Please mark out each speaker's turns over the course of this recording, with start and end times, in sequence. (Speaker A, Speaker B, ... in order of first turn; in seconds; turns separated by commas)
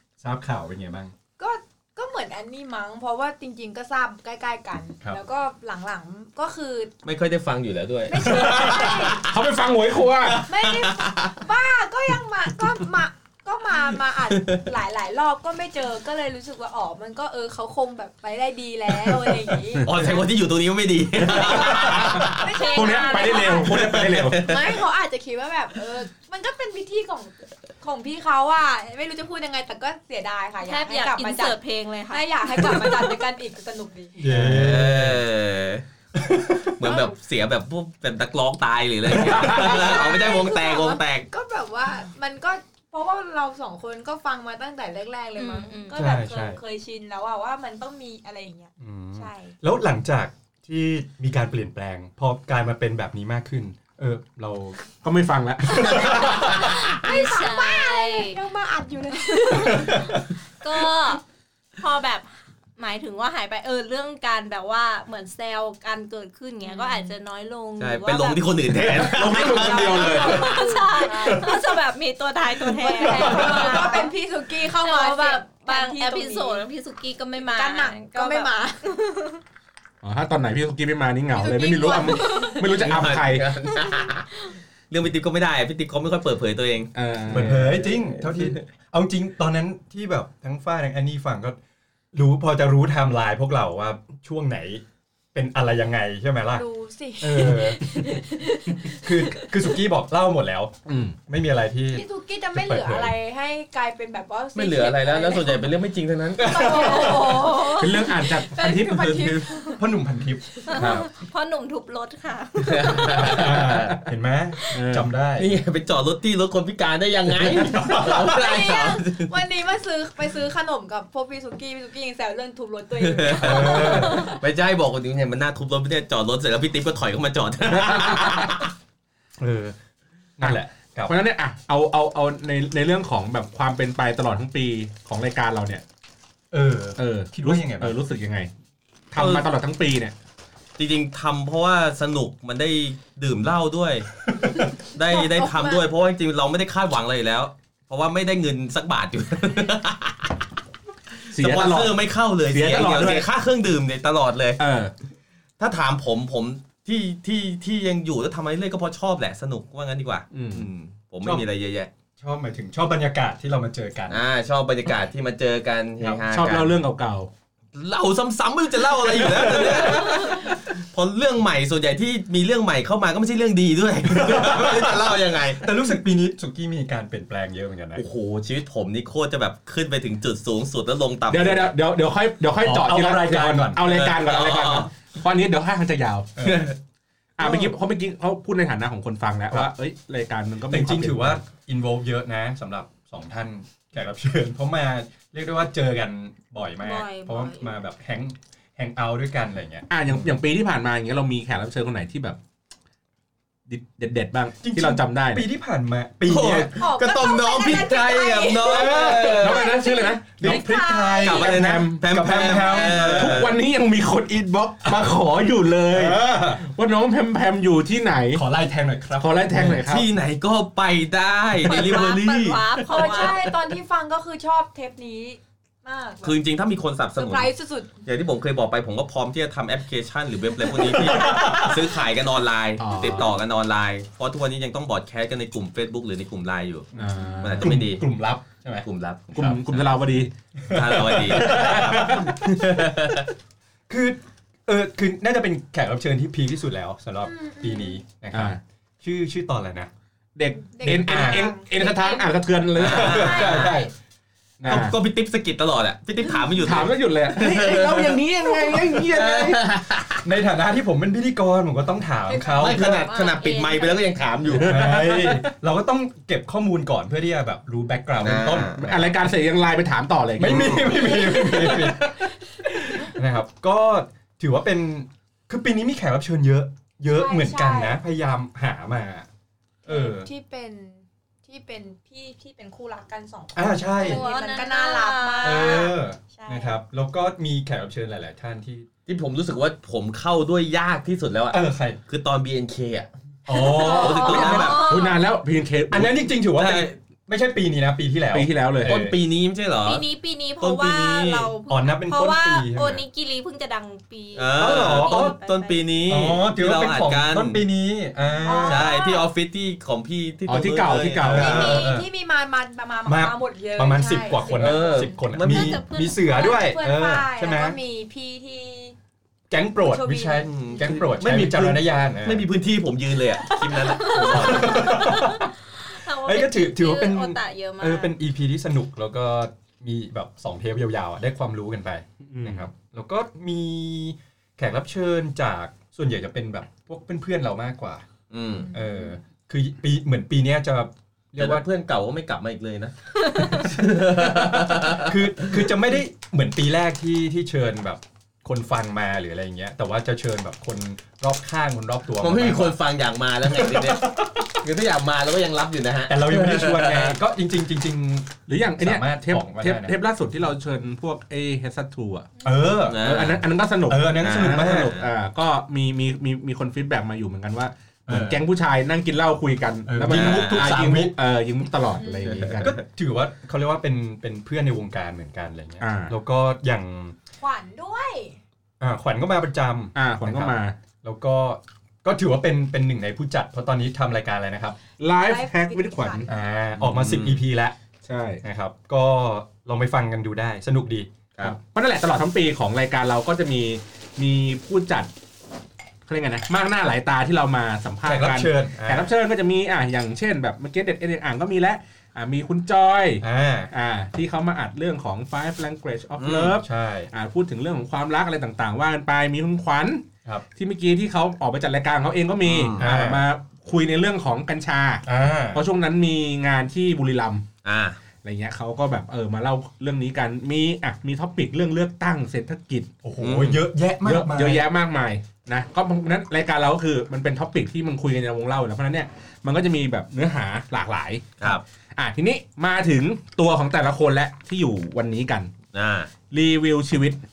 Speaker A: 0.2-1.1, Speaker B: 1.4-6.9, Speaker C: 7.0-9.5, Speaker B: 8.1-9.2, Speaker D: 8.2-10.5, Speaker C: 10.2-11.4, Speaker B: 10.5-20.0, Speaker C: 14.3-14.6, Speaker D: 19.7-20.2, Speaker C: 19.8-22.5, Speaker D: 21.2-24.6, Speaker B: 22.1-31.6, Speaker E: 22.4-23.6, Speaker C: 23.6-24.7, Speaker E: 30.6-33.2, Speaker B: 32.1-34.2, Speaker A: 34.2-35.2, Speaker C: 34.2-35.8, Speaker A: 36.1-36.7, Speaker C: 36.7-41.3, Speaker A: 39.2-39.5, Speaker B: 39.3-49.5, Speaker D: 39.4-39.6, Speaker E: 45.4-46.0, Speaker A: 45.9-46.6, Speaker A: 48.8-54.8, Speaker D: 55.0-56.7, Speaker B: 55.7-60.2, Speaker E: 55.8-58.4, Speaker E: 59.3-61.2, Speaker E: 61.8-68.5, Speaker B: 66.7-67.1, Speaker C: 67.8-70.5, Speaker D: 68.7-70.6, Speaker B: 69.5-71.5, Speaker E: 69.6-79.4, Speaker D: 71.3-71.6, Speaker B: 72.8-76.7, Speaker D: 73.1-73.8, Speaker B: 77.5-79.0, Speaker D: 80.0-83.5, Speaker B: 81.3-82.9, Speaker E: 82.0-82.6, Speaker C: 82.6-84.3, Speaker C: 84.9-88.6, Speaker D: 86.9-87.8, Speaker A: 87.3-91.6, Speaker A: 92.1-96.7, Speaker B: 96.6-99.8, Speaker A: 97.2-100.8, Speaker D: 100.9-101.2, Speaker A: 101.3-103.2, Speaker B: 101.9-105.7, Speaker C: 104.5-106.9, Speaker A: 106.4-107.4, Speaker B: 106.4-109.8, Speaker E: 106.5-108.3, Speaker D: 107.6-109.3, Speaker C: 108.7-109.5, Speaker A: 109.7-111.1, Speaker E: 110.7-113.5, Speaker C: 112.6-114.0, Speaker A: 113.0-115.5, Speaker D: 113.5-114.0, Speaker E: 114.6-114.8, Speaker D: 114.7-115.1, Speaker C: 115.4-119.3, Speaker A: 117.4-118.2, Speaker B: 118.0-124.3, Speaker C: 123.0-128.7, Speaker A: 123.3-124.3, Speaker A: 127.8-128.5, Speaker D: 127.8-128.5, Speaker A: 129.4-129.8, Speaker A: 130.4-131.1, Speaker D: 130.4-135.8, Speaker A: 136.5-138.0, Speaker D: 137.0-138.5, Speaker D: 139.1-140.2, Speaker C: 139.2-139.5, Speaker C: 140.8-144.1, Speaker B: 144.4-145.8, Speaker C: 144.7-150.4, Speaker C: 151.3-154.6, Speaker D: 151.3-153.3, Speaker D: 154.6-154.9, Speaker C: 155.6-161.9, Speaker D: 160.3-160.7, Speaker A: 162.2-164.2, Speaker C: 164.1-166.8, Speaker D: 166.2-167.3, Speaker C: 167.8-175.7, Speaker A: 168.9-170.5, Speaker A: 174.1-178.0, Speaker C: 177.9-181.7, Speaker D: 181.3-186.4, Speaker A: 182.6-183.9, Speaker C: 183.8-184.9, Speaker A: 186.4-186.7, Speaker C: 186.4-186.8, Speaker D: 187.4-191.4, Speaker A: 187.4-187.7, Speaker A: 190.7-200.3, Speaker E: 196.7-197.7, Speaker D: 199.9-202.4, Speaker D: 203.7-205.5, Speaker A: 204.6-206.7, Speaker C: 206.3-209.8, Speaker B: 206.8-211.5, Speaker A: 208.7-209.7, Speaker D: 209.4-210.6, Speaker A: 210.4-213.5, Speaker C: 211.2-213.6, Speaker D: 211.2-218.4, Speaker A: 214.8-215.1, Speaker A: 215.9-216.6, Speaker A: 218.3-219.8, Speaker D: 219.2-220.1, Speaker C: 219.9-223.3, Speaker E: 221.6-223.5, Speaker B: 222.8-226.4, Speaker C: 226.2-227.5, Speaker B: 227.2-227.9, Speaker C: 228.1-238.1, Speaker A: 230.9-231.7, Speaker D: 232.8-233.3, Speaker D: 236.9-237.8, Speaker A: 237.0-238.9, Speaker C: 238.8-239.9, Speaker D: 239.3-240.3, Speaker A: 240.7-242.6, Speaker C: 240.7-243.3, Speaker D: 241.3-242.4, Speaker A: 243.9-249.9, Speaker B: 247.3-248.0, Speaker D: 248.3-248.6, Speaker D: 250.4-253.9, Speaker B: 250.7-252.3, Speaker A: 250.8-251.6, Speaker C: 252.8-253.8, Speaker A: 252.8-253.9, Speaker B: 253.1-253.9, Speaker D: 254.6-254.9, Speaker C: 254.7-260.2, Speaker D: 256.6-259.7, Speaker A: 260.2-263.1, Speaker B: 262.3-264.0, Speaker C: 262.6-265.3, Speaker E: 263.4-263.9, Speaker D: 264.5-265.4, Speaker A: 264.5-269.2, Speaker C: 268.2-268.9, Speaker D: 268.8-271.9, Speaker A: 270.4-279.3, Speaker C: 270.4-270.9, Speaker B: 271.1-271.9, Speaker B: 277.1-278.0, Speaker A: 279.9-280.3, Speaker B: 279.9-286.8, Speaker A: 283.6-284.2, Speaker E: 284.0-286.0, Speaker A: 285.4-288.9, Speaker C: 289.1-294.9, Speaker A: 291.5-292.0, Speaker A: 293.5-294.9, Speaker B: 293.6-294.5, Speaker E: 293.6-295.2, Speaker D: 294.3-296.3, Speaker A: 295.9-299.1, Speaker C: 296.6-296.9, Speaker D: 298.3-299.0, Speaker C: 298.9-300.1, Speaker E: 299.8-306.0, Speaker C: 300.6-301.5, Speaker A: 301.7-303.0, Speaker C: 304.4-307.6, Speaker A: 304.6-305.4, Speaker A: 306.1-308.9, Speaker B: 308.4-309.3, Speaker C: 308.6-311.9, Speaker D: 310.5-311.8, Speaker A: 311.2-312.1, Speaker B: 311.4-315.2, Speaker A: 313.1-317.8, Speaker C: 314.5-315.8, Speaker E: 315.4-316.7, Speaker B: 316.2-318.9, Speaker A: 319.5-322.5, Speaker B: 319.8-320.7, Speaker C: 320.4-325.3, Speaker E: 324.0-328.2, Speaker A: 324.0-325.5, Speaker A: 326.1-338.1, Speaker D: 332.3-332.7, Speaker C: 338.3-338.7, Speaker A: 338.7-341.7, Speaker B: 338.8-339.0, Speaker C: 341.4-345.6, Speaker A: 343.5-352.8, Speaker C: 352.2-357.2, Speaker A: 353.4-354.6, Speaker A: 356.1-360.0, Speaker D: 358.5-362.3, Speaker A: 362.4-364.9, Speaker C: 362.8-363.4, Speaker D: 363.0-372.8, Speaker C: 364.2-365.1, Speaker A: 368.1-368.4, Speaker A: 369.9-371.1, Speaker C: 370.1-370.8, Speaker C: 372.2-372.7, Speaker A: 372.6-377.2, Speaker D: 375.8-376.1, Speaker B: 377.4-378.4, Speaker A: 378.8-384.8, Speaker D: 379.9-380.8, Speaker D: 385.0-386.3, Speaker B: 385.2-386.3, Speaker A: 386.3-387.8, Speaker C: 386.8-387.4, Speaker D: 388.1-388.4, Speaker A: 388.4-391.1, Speaker D: 391.4-395.1, Speaker D: 396.1-417.5, Speaker A: 398.0-399.1, Speaker A: 403.2-403.7, Speaker C: 406.2-406.6, Speaker A: 406.5-407.1, Speaker C: 412.4-412.9, Speaker A: 412.8-413.2, Speaker A: 415.1-415.6, Speaker C: 417.6-418.0, Speaker D: 418.2-422.9, Speaker A: 423.0-424.7, Speaker C: 423.2-423.6, Speaker D: 424.0-435.5, Speaker C: 435.7-436.1, Speaker D: 436.3-437.2